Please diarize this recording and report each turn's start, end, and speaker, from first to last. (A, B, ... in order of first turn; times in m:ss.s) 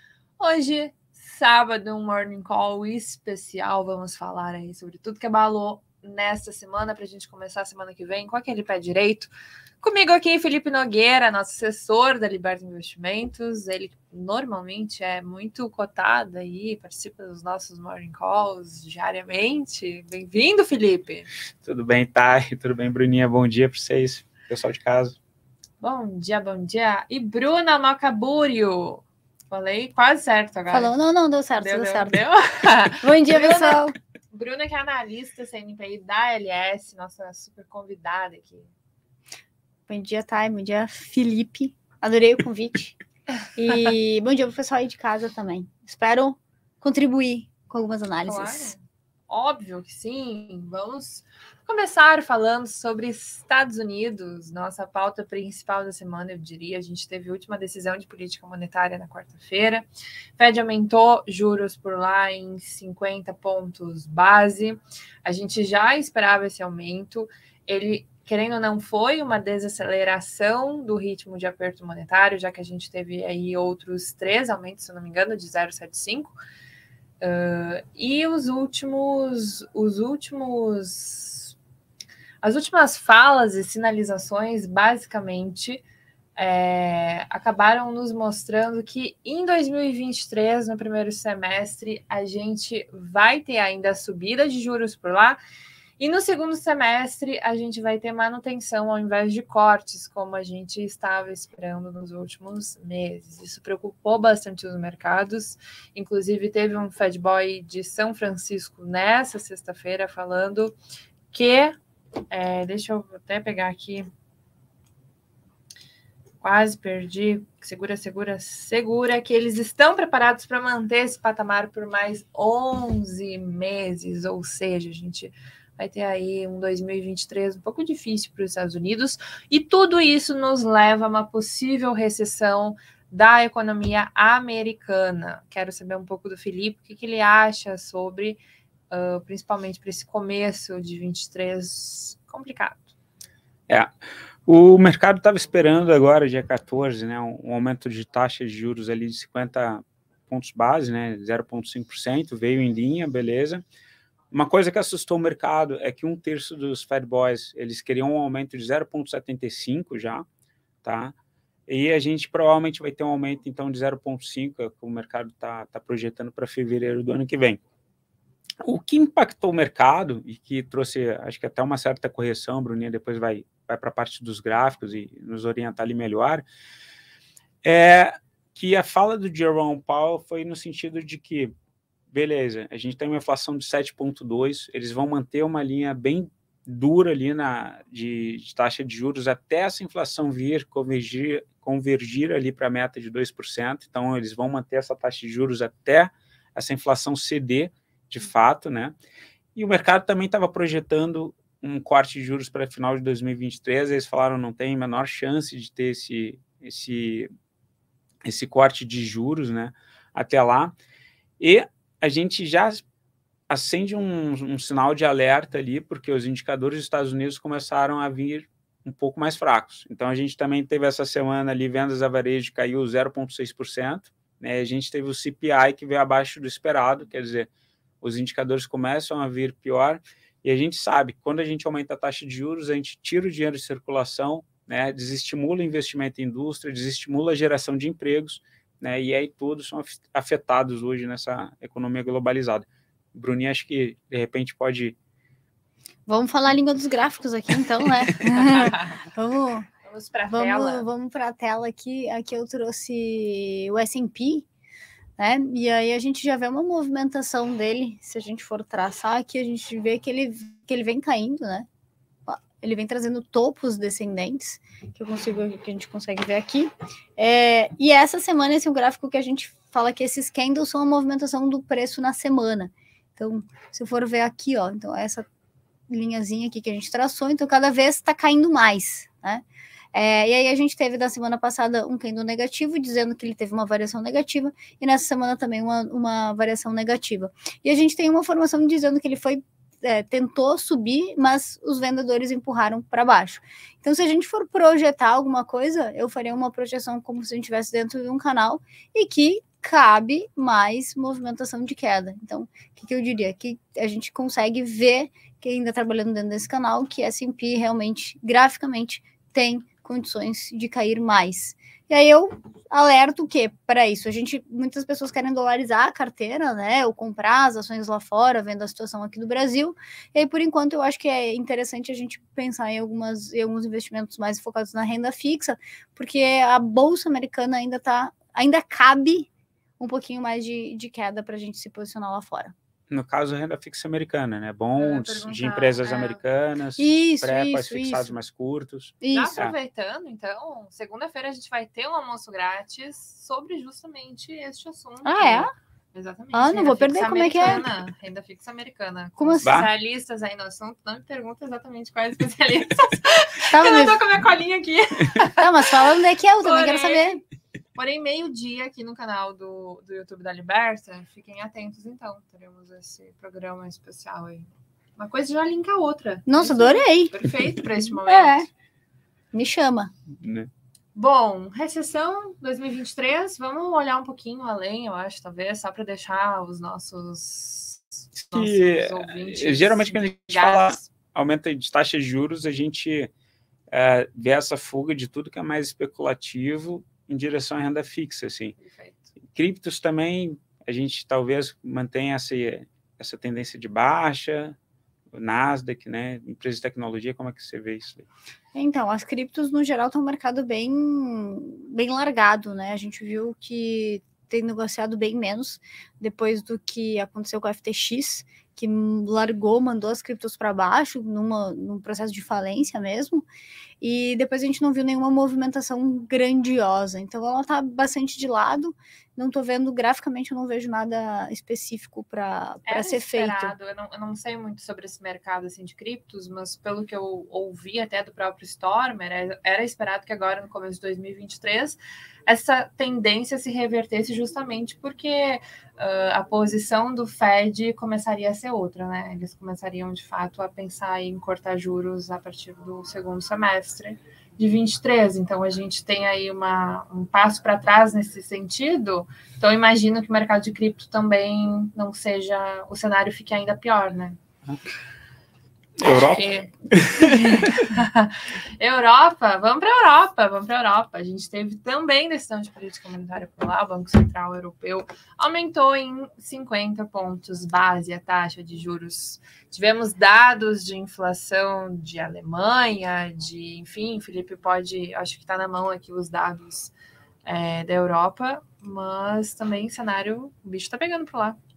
0:00.4-0:21.3 A
0:21.6-0:25.2 B
0:25.8-0:30.9 A
0:30.7-0:32.2 C
0:31.6-0:38.7 A
0:33.0-0:34.0 C
0:39.9-0:43.0 C
0:43.6-0:48.7 C
0:48.2-1:16.4 A
1:17.2-1:21.6 A
1:22.4-1:25.8 A
1:26.4-1:35.4 A
1:36.0-1:50.8 A
1:51.3-1:51.8 A
1:52.3-1:54.1 A
1:56.4-2:22.9 A
2:24.5-2:33.6 B
2:34.3-2:40.2 B
2:40.8-2:41.1 B
2:41.7-2:47.6 B
2:48.6-2:56.4 B
2:57.6-3:01.5 B
3:02.1-3:19.0 B
3:19.6-3:27.3 B
3:28.2-3:30.8 B
3:31.4-3:32.8 B
3:33.5-3:47.5 B
3:48.0-4:05.0 B
4:06.1-4:09.7 C
4:08.6-4:09.0 A
4:09.8-4:10.9 A
4:10.3-4:14.5 C
4:15.2-4:21.7 C
4:22.3-4:35.3 C
4:35.9-5:32.5 C
5:32.9-5:39.6 B
5:34.8-5:36.2 A
5:36.8-5:38.2 C
5:39.0-5:39.4 C
5:39.1-5:55.5 A
5:45.0-5:45.5 C
5:46.3-5:47.6 C
5:49.2-5:49.5 C
5:49.4-5:49.7 B
5:53.5-5:54.0 C
5:55.2-5:57.2 C
5:56.4-5:57.2 A
5:57.8-6:08.5 A
6:06.3-6:07.2 C
6:08.0-6:08.5 C
6:09.3-6:09.9 C
6:10.2-6:10.5 B
6:11.0-6:20.9 A
6:18.2-6:23.1 B
6:23.7-6:28.6 B
6:28.6-6:29.1 A
6:29.3-6:34.6 B
6:35.1-6:38.1 B
6:38.5-6:53.2 C
6:53.8-7:03.5 C
7:02.7-7:34.2 A
7:35.8-7:37.7 B
7:35.9-7:56.7 A
7:57.2-8:01.4 A